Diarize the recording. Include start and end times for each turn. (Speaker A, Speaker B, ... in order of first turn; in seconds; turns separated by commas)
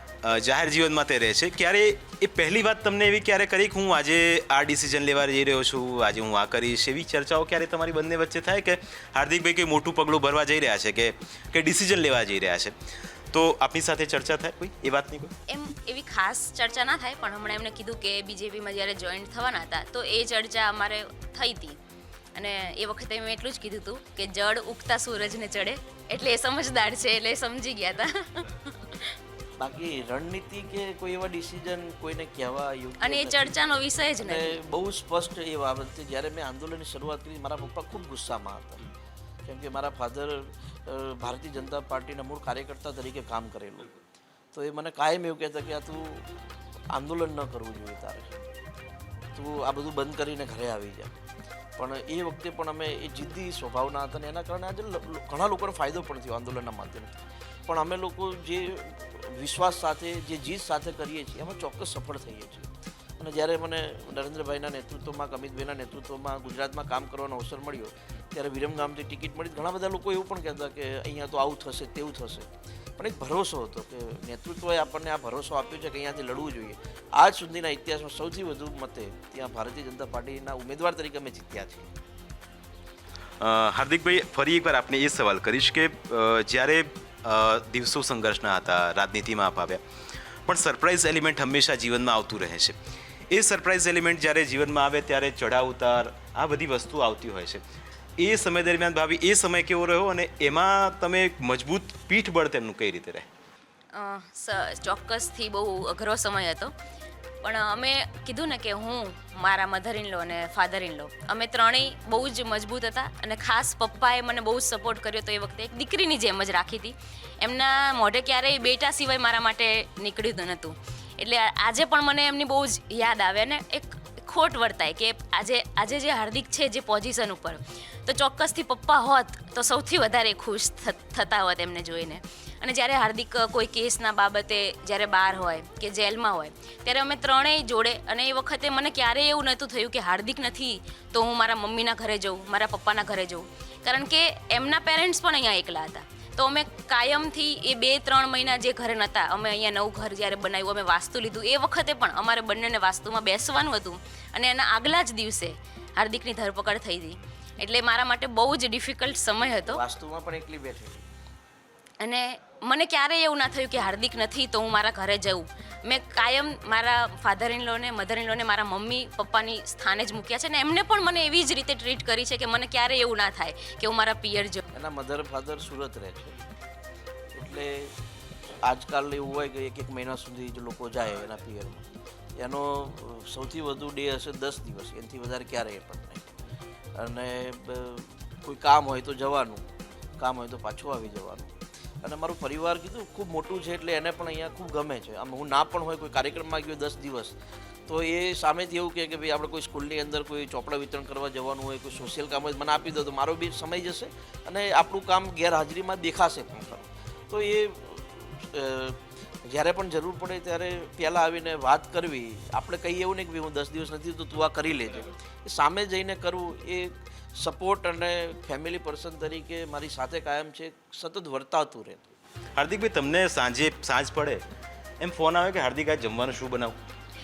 Speaker A: 0.2-12.7, Speaker A: 13.3-15.3, Speaker B: 15.5-21.8, Speaker B: 22.4-29.2, Speaker C: 29.6-33.6, Speaker B: 33.0-34.6, Speaker C: 34.2-38.9, Speaker C: 39.5-44.0, Speaker C: 44.5-48.3, Speaker C: 49.4-51.1, Speaker C: 51.8-81.9, Speaker A: 83.4-89.8, Speaker A: 90.5-92.8, Speaker A: 93.3-97.6, Speaker A: 98.2-103.3, Speaker B: 103.9-106.7, Speaker B: 107.4-159.8, Speaker C: 159.7-161.1, Speaker B: 162.0-174.6, Speaker C: 174.7-176.4, Speaker C: 177.3-181.8, Speaker C: 182.4-186.3, Speaker C: 186.9-189.7, Speaker C: 190.2-197.4, Speaker C: 197.9-222.2, Speaker A: 222.6-224.4, Speaker A: 225.0-226.8